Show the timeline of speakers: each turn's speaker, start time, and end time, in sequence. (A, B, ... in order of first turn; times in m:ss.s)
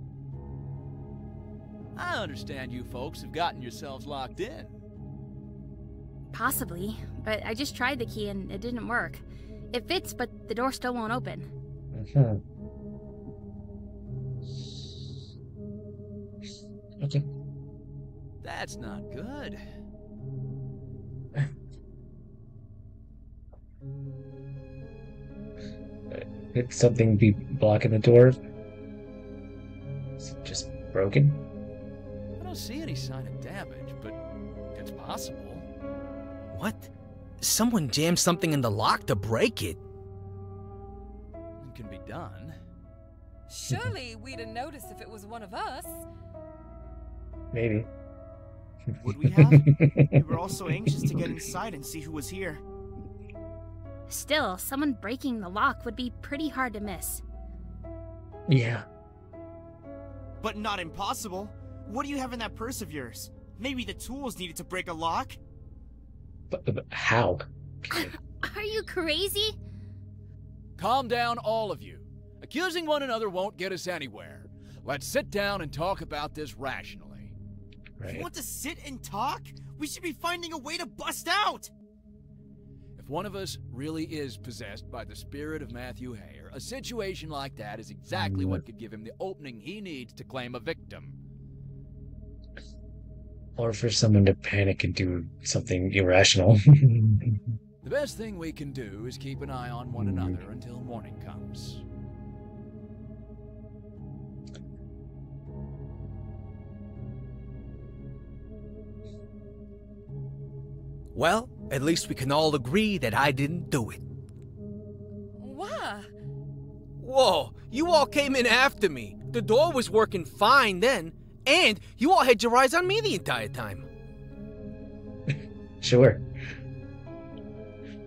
0:02.0-0:04.8 A
0:06.3-0:11.5 B
0:11.9-0:12.4 C
0:17.0-0:17.3 C
0:18.4-0:19.6 A
0:26.1-0:28.4 C
0:30.2-0:31.4 C
0:32.4-0:34.2 A
0:34.7-0:35.6 A
0:36.5-0:39.8 D
0:41.6-0:42.5 A
0:43.5-0:46.0 E
0:47.5-0:47.9 C
0:49.0-0:52.6 F
0:49.3-0:50.2 C
0:54.1-0:57.2 B
0:58.5-0:58.8 C
1:00.4-1:05.4 F
1:06.5-1:08.1 C
1:07.9-1:09.6 B
1:10.8-1:17.3 A
1:18.0-1:18.3 C
1:18.0-1:21.7 F
1:23.0-1:31.2 A
1:28.1-1:28.6 C
1:33.6-1:37.4 C
1:37.8-1:41.8 A
1:40.0-1:40.4 C
1:51.1-1:54.0 D
1:55.4-1:56.1 E
1:57.0-2:03.8 D
2:05.3-2:06.2 C